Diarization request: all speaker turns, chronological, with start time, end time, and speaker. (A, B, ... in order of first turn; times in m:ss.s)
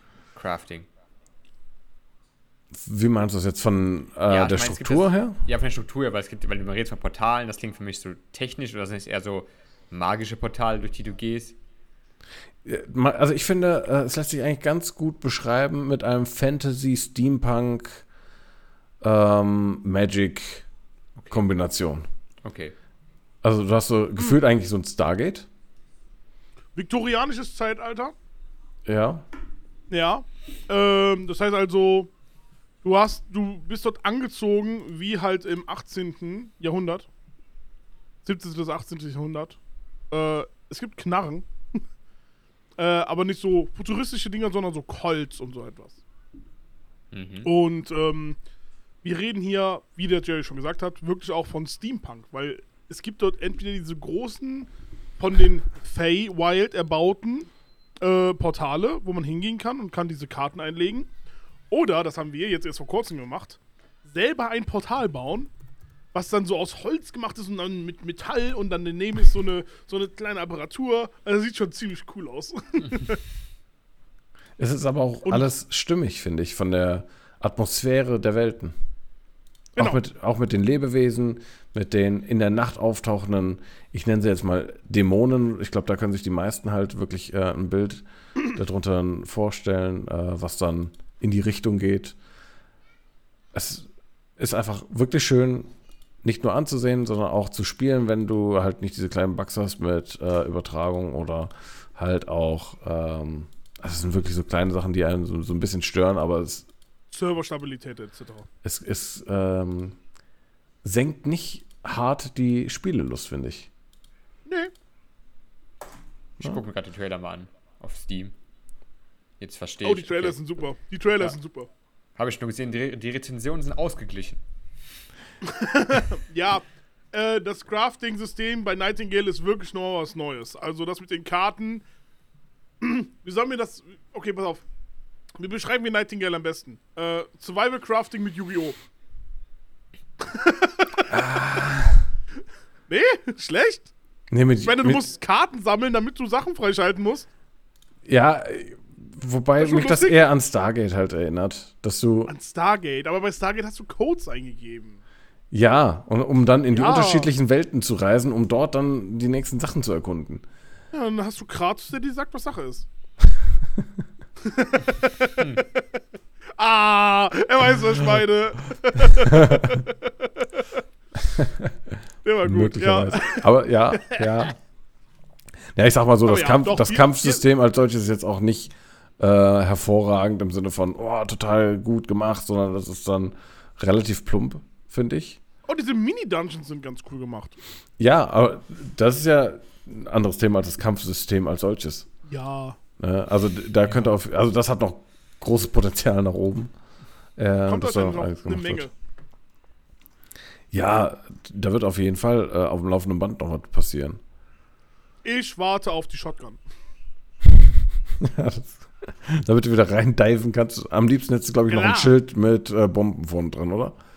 0:00.4-0:00.9 A
0:02.7-0:05.4 B
0:04.3-0:11.6 A
0:12.6-0:18.0 B
0:19.0-0:20.7 B
0:21.3-0:22.0 B
0:22.4-0:22.7 A
0:23.4-0:25.5 B
0:26.8-0:28.1 C
0:28.9-0:29.2 B
0:29.9-0:32.1 C
0:32.8-0:37.1 C
0:38.2-0:39.6 C
0:40.1-0:41.8 C
0:42.8-0:46.0 C
0:47.1-0:47.5 A
0:47.4-0:48.4 C
0:49.0-0:57.5 C
0:58.0-1:01.1 C
1:01.7-1:05.5 C
1:06.1-1:13.2 C
1:14.6-1:18.7 B
1:19.8-1:32.2 B
1:33.5-1:35.7 B
1:36.2-1:46.7 B
1:47.1-1:48.5 C
1:48.6-1:50.0 B
1:50.8-1:53.7 B
1:54.5-1:54.7 C
1:56.4-1:58.3 A
1:59.4-2:00.4 A
1:59.8-2:01.7 C
2:02.2-2:04.4 A
2:05.4-2:11.8 C
2:12.8-2:14.6 C
2:15.4-2:18.8 C
2:20.2-2:21.1 C
2:21.1-2:22.1 B
2:22.9-2:23.9 C
2:24.3-2:25.1 B
2:24.6-2:27.3 C
2:28.0-2:32.3 B
2:29.6-2:30.2 C
2:32.3-2:35.0 C
2:35.5-2:40.4 B
2:36.7-2:37.3 C
2:40.9-2:42.9 C
2:44.4-2:45.8 C
2:46.6-2:50.7 C
2:49.3-2:49.8 B
2:51.3-2:51.9 B
2:52.2-2:54.5 C
2:52.4-2:54.6 B
2:55.8-3:05.4 B
2:56.2-2:57.4 C
3:05.7-3:07.6 C
3:08.0-3:12.1 B
3:12.3-3:12.8 C
3:13.0-3:16.7 B
3:17.4-3:18.9 B
3:17.7-3:18.9 C
3:20.7-3:24.2 B
3:25.2-3:26.6 C
3:27.5-3:34.0 B
3:31.7-3:32.2 C